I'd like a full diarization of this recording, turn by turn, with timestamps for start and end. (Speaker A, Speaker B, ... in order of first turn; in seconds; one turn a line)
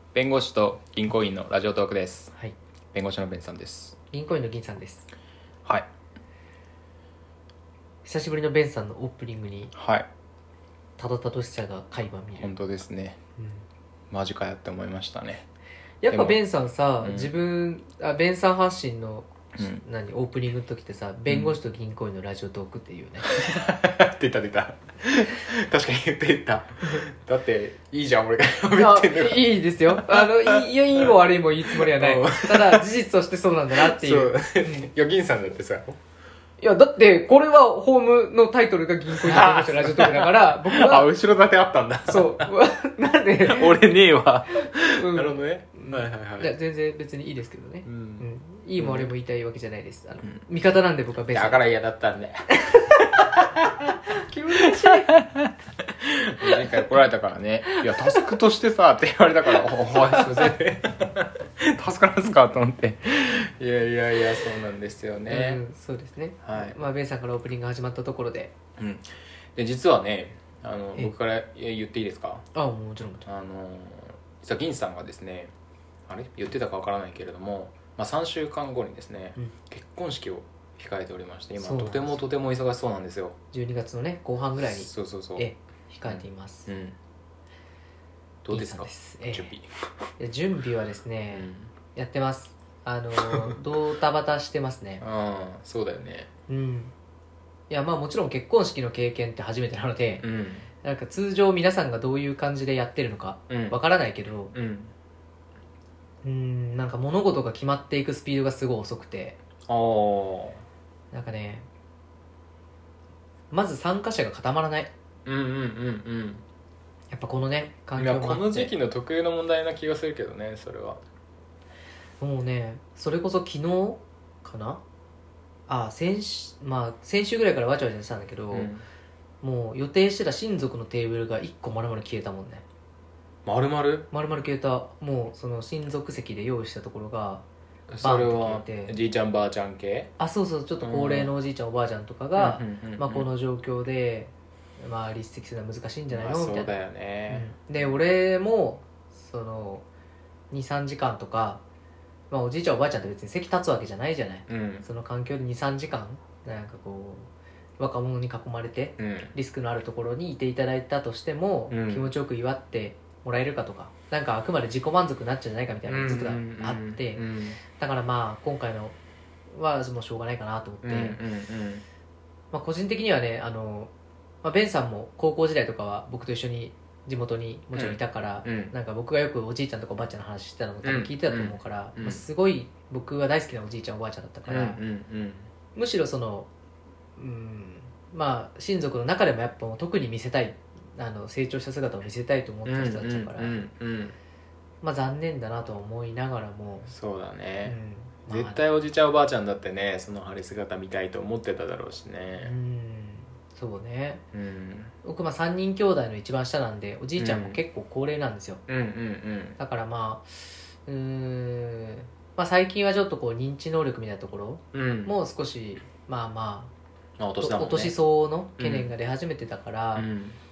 Speaker A: 0.1-2.3
Speaker A: 2.9-4.0
Speaker B: 4.1-5.1
Speaker B: 8.0-9.7
Speaker A: 9.7-10.1
Speaker B: 11.0-12.5
Speaker A: 12.4-13.2
Speaker B: 13.4-13.6
Speaker A: 14.1-15.4
Speaker B: 16.0-23.3
Speaker A: 16.1-16.4
Speaker A: 17.0-17.3
Speaker A: 19.5-19.8
Speaker A: 21.3-21.6
Speaker A: 23.2-31.1
Speaker B: 28.8-34.9
Speaker A: 31.7-32.9
Speaker A: 33.7-36.0
Speaker B: 36.6-41.1
Speaker A: 39.1-42.5
Speaker B: 42.0-43.9
Speaker A: 43.4-46.5
Speaker B: 44.5-51.6
Speaker A: 47.8-48.2
Speaker A: 48.8-49.1
Speaker A: 51.3-52.4
Speaker B: 52.5-53.3
Speaker B: 54.2-55.1
Speaker A: 54.5-65.6
Speaker B: 57.6-58.3
Speaker B: 65.3-68.6
Speaker A: 66.4-66.8
Speaker A: 68.8-72.5
Speaker B: 72.5-73.3
Speaker A: 73.2-75.5
Speaker A: 76.1-83.4
Speaker B: 81.6-82.2
Speaker B: 83.5-86.7
Speaker A: 84.6-85.5
Speaker A: 86.1-87.0
Speaker A: 88.4-89.7
Speaker B: 88.5-89.5
Speaker B: 90.2-95.0
Speaker A: 91.3-91.7
Speaker A: 93.2-93.6
Speaker A: 95.0-96.3
Speaker B: 96.5-96.9
Speaker B: 97.7-100.2
Speaker A: 100.2-100.7
Speaker B: 100.8-104.5
Speaker A: 103.5-103.8
Speaker A: 104.5-104.9
Speaker B: 106.2-109.4
Speaker A: 109.7-110.6
Speaker B: 111.1-111.7
Speaker B: 113.5-114.9
Speaker A: 115.2-116.4
Speaker B: 117.1-118.7
Speaker A: 117.9-121.0
Speaker B: 122.2-124.8
Speaker B: 125.7-128.7
Speaker A: 128.5-128.8
Speaker B: 129.4-132.6
Speaker A: 133.4-134.1
Speaker B: 134.1-137.4
Speaker A: 137.9-140.1
Speaker B: 138.0-139.0
Speaker B: 140.2-146.7
Speaker A: 140.8-141.3
Speaker A: 142.3-143.3
Speaker A: 146.1-147.9
Speaker B: 147.3-149.8
Speaker B: 150.5-151.6
Speaker B: 152.3-168.9
Speaker A: 154.5-154.8
Speaker A: 159.0-159.3
Speaker A: 161.7-162.1
Speaker A: 165.8-167.6
Speaker B: 169.5-171.2
Speaker A: 170.8-171.8
Speaker B: 172.5-173.9
Speaker B: 174.4-184.8
Speaker A: 177.7-178.7
Speaker A: 180.8-182.2
Speaker A: 184.5-185.5
Speaker B: 185.7-186.5
Speaker B: 187.2-193.6
Speaker A: 192.6-194.2
Speaker B: 194.8-196.9
Speaker A: 196.9-197.8
Speaker B: 197.6-198.6
Speaker A: 198.3-202.5
Speaker B: 202.4-204.2
Speaker A: 204.3-204.9
Speaker B: 205.0-208.6
Speaker A: 207.2-207.6
Speaker A: 208.7-209.6
Speaker B: 209.6-216.7
Speaker A: 214.7-215.1
Speaker A: 217.2-217.9
Speaker B: 217.4-220.1
Speaker A: 218.6-218.9
Speaker A: 219.9-220.4